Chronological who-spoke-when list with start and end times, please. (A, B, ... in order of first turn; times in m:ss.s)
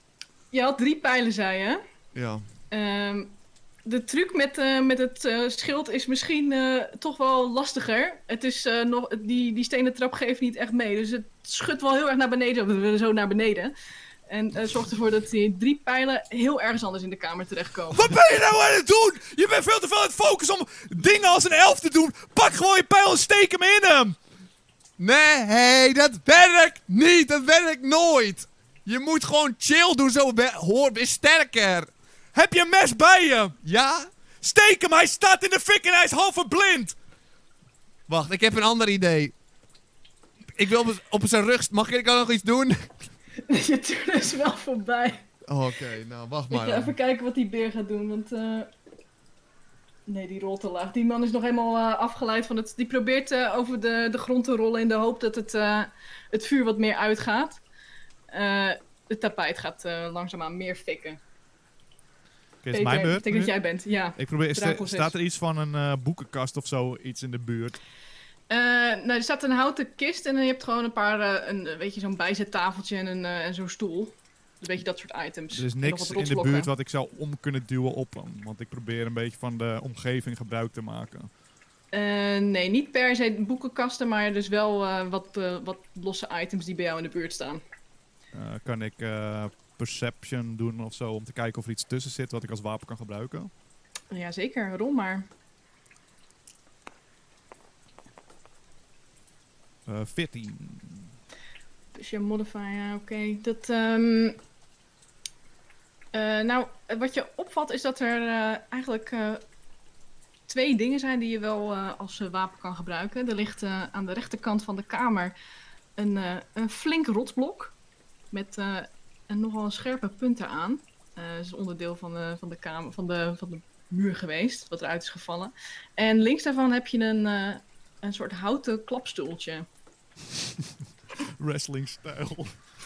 0:00.5-0:01.8 A
0:02.1-0:02.4 B
0:02.7-0:13.7 A
0:14.3-0:18.1 A
0:17.9-0:24.2 C
0:25.0-0:31.9 B
0:32.3-0:33.5 C
0:33.6-0:34.1 B
0:34.4-0:36.9 C
0:38.1-0:39.3 B
0:40.6-0:42.9 B
0:43.4-0:45.2 A
0:45.5-0:46.9 B
0:46.5-0:48.7 A
0:50.1-0:57.6 A
0:58.3-1:01.2 A
1:02.6-1:03.5 C
1:02.7-1:05.1 A
1:04.2-1:07.8 C
1:08.5-1:16.7 A
1:15.5-1:21.3 C
1:21.9-1:27.6 A
1:28.3-1:33.5 C
1:34.1-1:35.3 A
1:39.8-1:41.1 C
1:41.9-1:44.4 A
1:46.1-1:49.4 A
1:50.5-1:55.3 A
1:56.0-1:57.7 A
1:58.3-2:09.6 A
2:11.4-2:12.6 C